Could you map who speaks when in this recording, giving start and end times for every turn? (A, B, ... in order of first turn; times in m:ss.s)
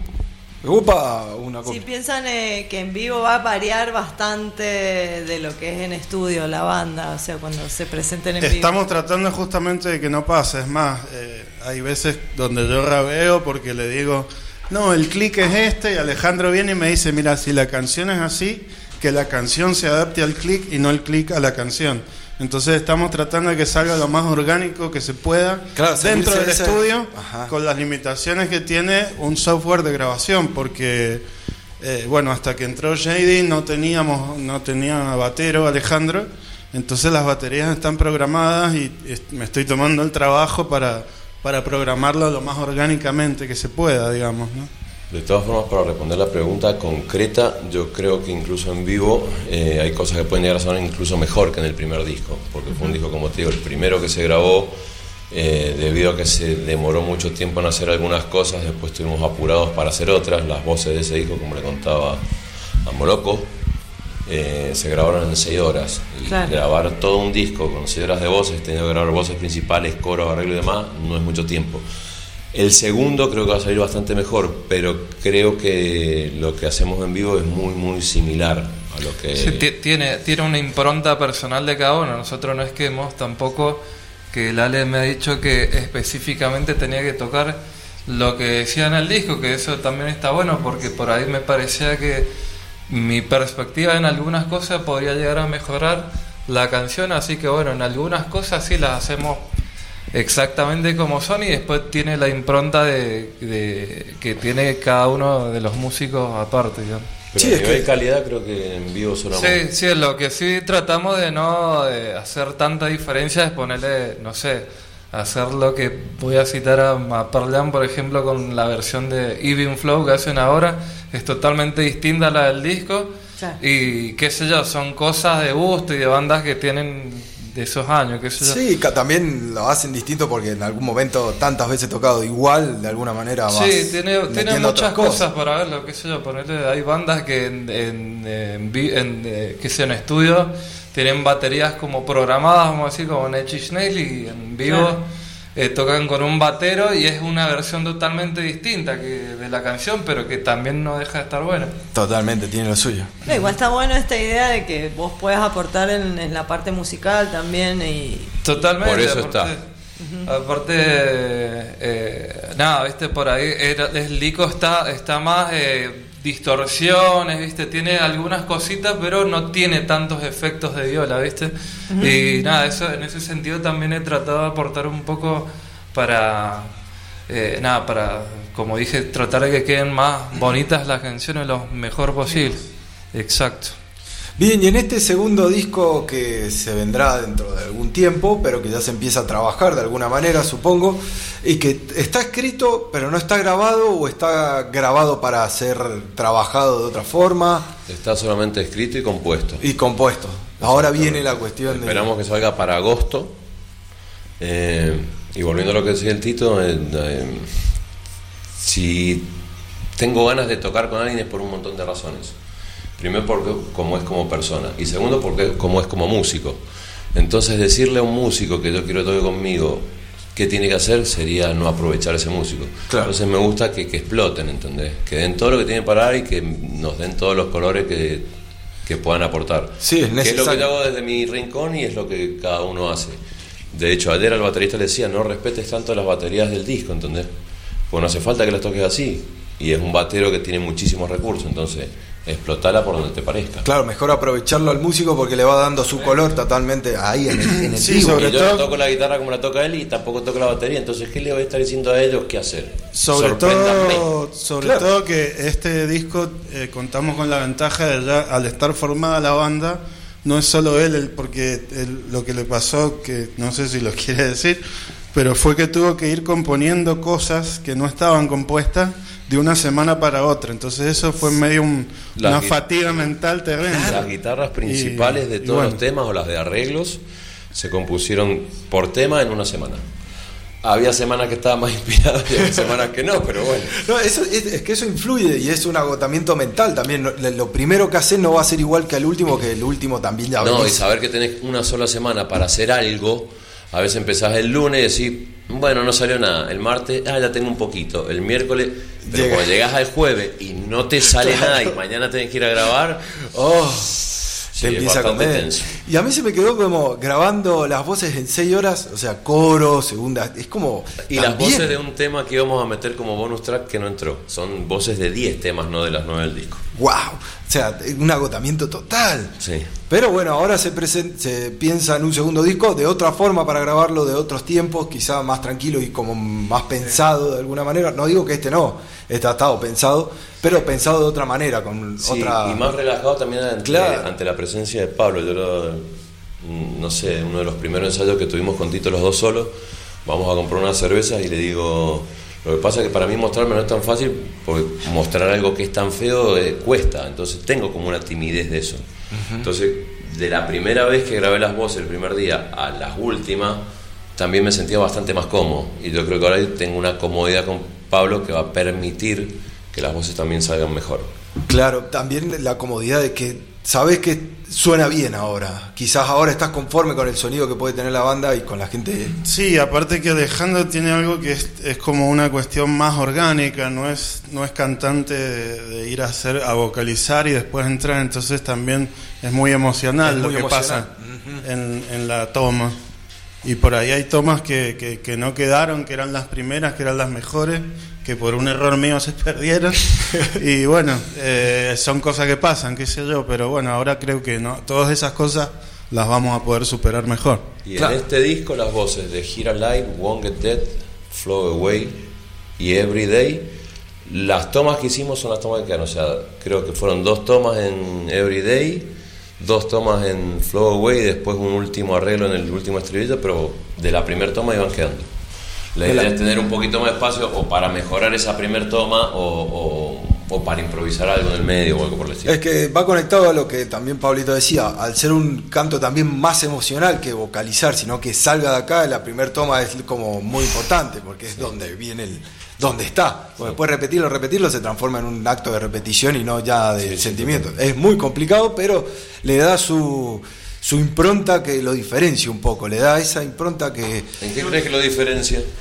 0:00.6-0:01.8 A
0:01.6-0:08.8 B
0:08.4-0:31.2 C
0:25.8-0:27.5 A
0:31.8-0:44.7 C
0:45.1-0:54.8 D
0:55.3-1:02.2 D
1:02.8-1:03.5 D
1:04.3-1:11.8 D
1:06.3-1:06.6 B
1:12.5-1:19.7 D
1:19.4-1:32.3 E
1:32.9-1:39.5 E
1:40.1-1:47.1 E
1:47.3-1:49.6 D
1:47.4-1:47.8 A
1:49.3-2:08.6 E
2:08.4-2:15.2 A
2:13.5-2:31.8 E
2:24.6-2:25.0 B
2:31.9-2:33.1 A
2:33.3-2:38.3 B
2:38.4-2:39.6 E
2:38.8-2:39.6 D
2:40.0-2:40.3 B
2:40.2-2:56.7 E
2:51.9-2:52.2 B
2:57.3-3:03.8 E
3:04.4-3:17.7 A
3:17.9-3:19.6 D
3:19.6-3:22.1 A
3:20.6-3:23.4 D
3:24.4-3:27.8 D
3:28.6-3:29.3 D
3:30.0-3:32.4 D
3:33.0-3:36.6 D
3:37.1-3:48.3 D
3:42.9-3:43.1 A
3:48.9-3:53.2 D
3:49.8-3:50.7 A
3:53.7-3:57.3 D
3:57.9-4:03.7 D
4:03.6-4:08.3 A
4:07.6-4:08.7 C
4:08.2-4:14.1 D
4:12.9-4:24.6 C
4:14.6-4:14.9 A
4:25.1-4:34.1 C
4:32.2-4:33.1 D
4:33.7-4:34.0 A
4:33.7-4:37.0 D
4:34.6-4:35.8 C
4:37.5-4:39.8 D
4:40.6-4:43.8 D
4:43.7-4:50.8 A
4:50.4-5:03.2 D
4:59.0-4:59.5 A
5:01.2-5:01.8 A
5:03.3-5:11.8 A
5:04.6-5:05.8 D
5:11.1-5:16.6 D
5:16.8-5:19.4 A
5:19.4-5:19.7 D
5:19.9-5:32.7 A
5:32.0-5:35.9 D
5:33.6-5:34.1 A
5:36.4-5:48.8 D
5:49.1-5:49.5 A
5:49.4-6:01.1 D
6:01.4-6:09.2 A
6:09.2-6:20.9 C
6:20.0-6:21.4 A
6:21.4-6:22.8 C
6:23.4-6:37.5 C
6:37.6-6:42.0 D
6:42.6-6:43.5 D
6:44.0-6:55.1 D
6:55.8-7:02.3 D
6:55.9-6:56.1 A
7:02.2-7:24.1 A
7:16.8-7:17.5 D
7:24.2-7:25.5 D